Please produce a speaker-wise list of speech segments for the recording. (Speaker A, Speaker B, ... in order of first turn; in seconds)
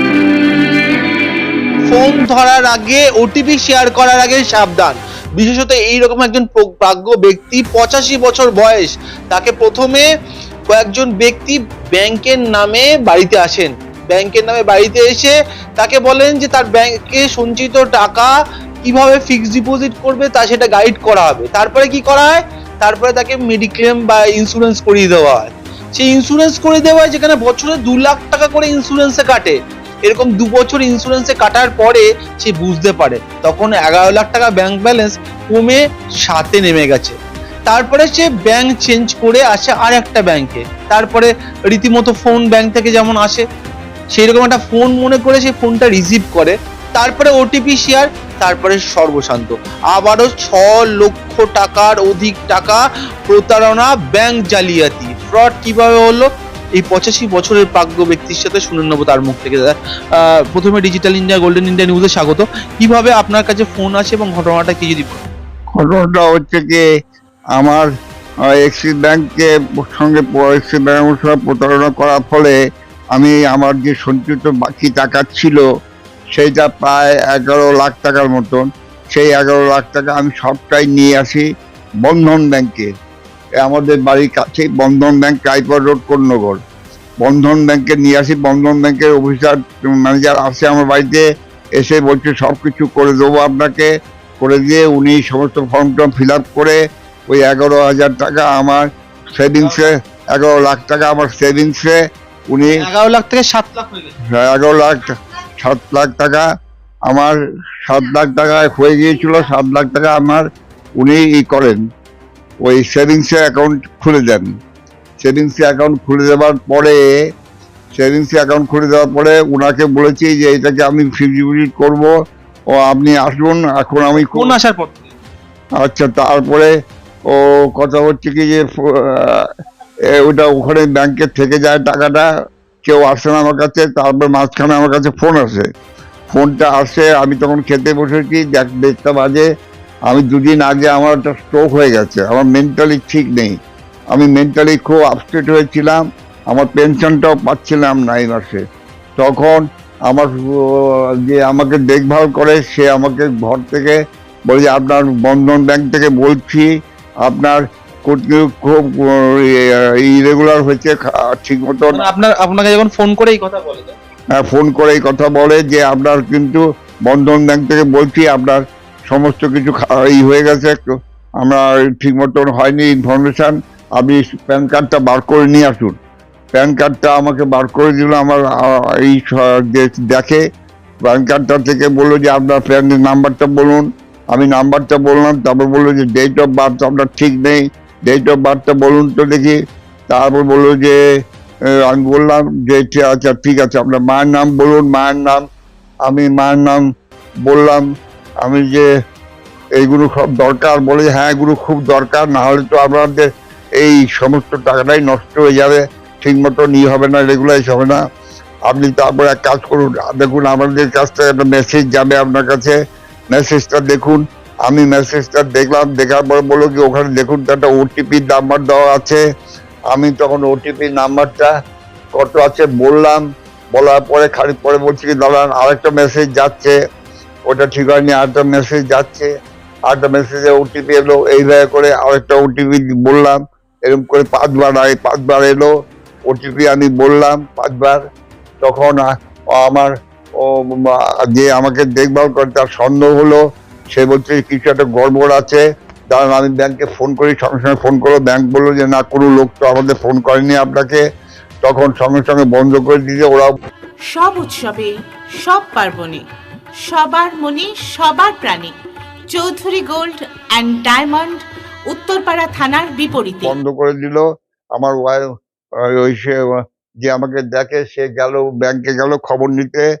Speaker A: 1.9-10.1, 10.7-37.1, 37.7-43.4, 44.1-65.2, 99.6-99.9, 102.7-104.2, 124.1-125.2, 161.9-163.9
Speaker B: 65.7-66.8, 67.5-67.9, 68.5-72.5, 73.1-75.6, 76.3-81.4, 82.0-82.9, 83.6-86.6, 87.2-91.2, 91.8-102.0, 102.5-102.8, 104.3-106.4, 107.1-110.5, 111.0-111.8, 112.6-114.5, 115.2-117.0, 117.9-122.1, 122.8-124.5, 125.8-126.7, 127.3-129.5, 130.2-132.3, 132.8-135.7, 136.3-139.5, 140.1-143.5, 144.1-148.6, 149.2-156.7, 157.2-162.0, 164.4-170.8, 171.4-176.0, 176.5-180.4, 181.0-189.6, 190.1-191.0, 191.8-195.4, 196.1-196.8, 197.4-197.8, 198.4-198.8, 199.8-208.0, 208.7-212.8, 213.3-219.2, 219.9-221.5, 222.2-223.2, 223.7-226.8, 227.5-229.3, 229.9-235.7, 236.3-238.0, 238.6-243.4, 243.9-251.0, 251.6-253.5, 263.4-264.2, 264.8-265.2, 265.8-266.4, 267.0-269.9
Speaker C: 254.1-256.2, 256.9-258.7, 259.3-263.5